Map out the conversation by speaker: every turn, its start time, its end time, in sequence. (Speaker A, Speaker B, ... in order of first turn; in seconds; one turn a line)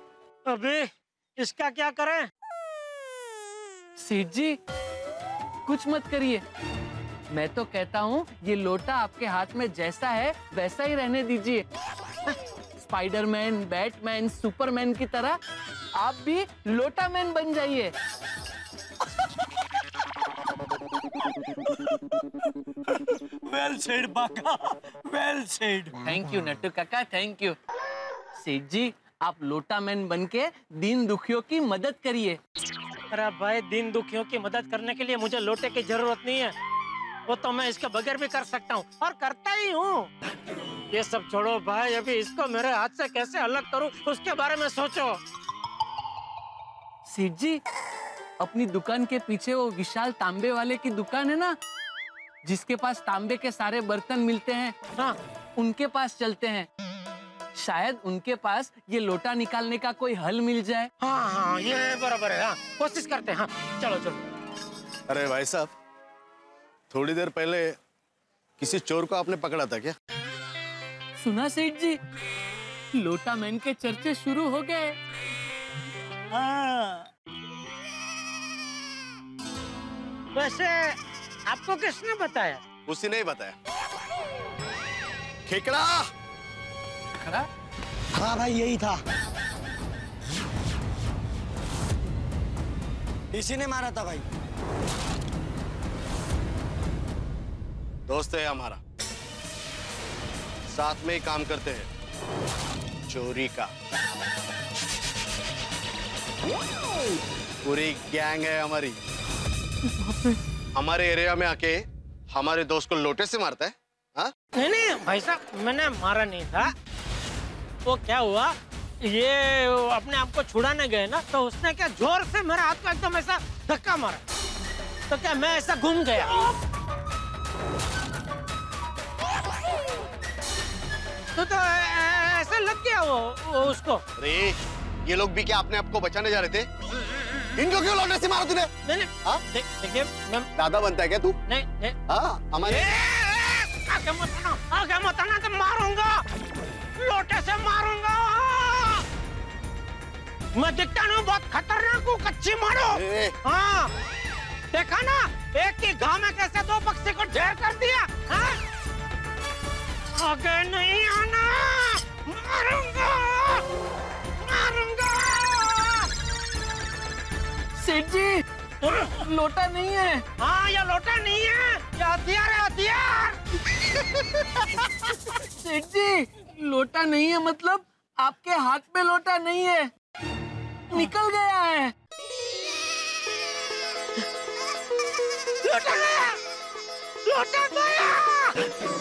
Speaker A: 0.5-2.3
Speaker B: 4.0-4.6
Speaker B: 5.7-6.4
Speaker B: 7.3-11.6
Speaker B: 12.8-15.4
Speaker B: 15.9-17.9
Speaker C: 22.9-25.9
Speaker B: 26.0-27.6
Speaker B: 28.3-32.4
Speaker A: 33.1-36.5
Speaker A: 37.3-40.1
Speaker A: 40.9-45.2
Speaker B: 47.0-47.6
Speaker B: 48.4-51.5
Speaker B: 52.4-54.7
Speaker B: 55.5-56.7
Speaker B: 57.6-60.9
Speaker A: 61.0-64.2
Speaker D: 65.1-65.7
Speaker D: 66.9-67.8
Speaker D: 68.6-69.9
Speaker B: 71.2-72.0
Speaker B: 72.9-75.0
Speaker A: 76.3-77.0
Speaker A: 80.3-81.0
Speaker A: 81.5-82.6
Speaker D: 82.9-83.5
Speaker D: 85.5-86.1
Speaker D: 98.1-98.8
Speaker D: 100.7-101.9
Speaker D: 103.1-103.7
Speaker D: 107.6-109.0
Speaker D: 110.7-114.3
Speaker A: 114.5-116.7
Speaker A: 117.8-124.2
Speaker A: 125.1-126.5
Speaker A: 131.3-134.0
Speaker D: 134.2-134.6
Speaker D: 135.1-136.7
Speaker D: 137.6-138.7
Speaker A: 138.8-140.5
Speaker D: 140.6-141.3
Speaker A: 141.5-141.9
Speaker D: 142.1-142.8
Speaker A: 142.6-146.2
Speaker A: 147.0-149.0
Speaker A: 150.6-153.9
Speaker D: 152.9-153.3
Speaker A: 154.7-158.6
Speaker A: 160.2-163.6
Speaker A: 164.4-166.1
Speaker B: 167.8-168.4
Speaker A: 168.8-169.2
Speaker B: 169.0-170.2
Speaker A: 170.4-173.4
Speaker B: 175.6-179.9
Speaker B: 180.9-181.9
Speaker A: 185.6-186.4
Speaker A: 187.2-188.7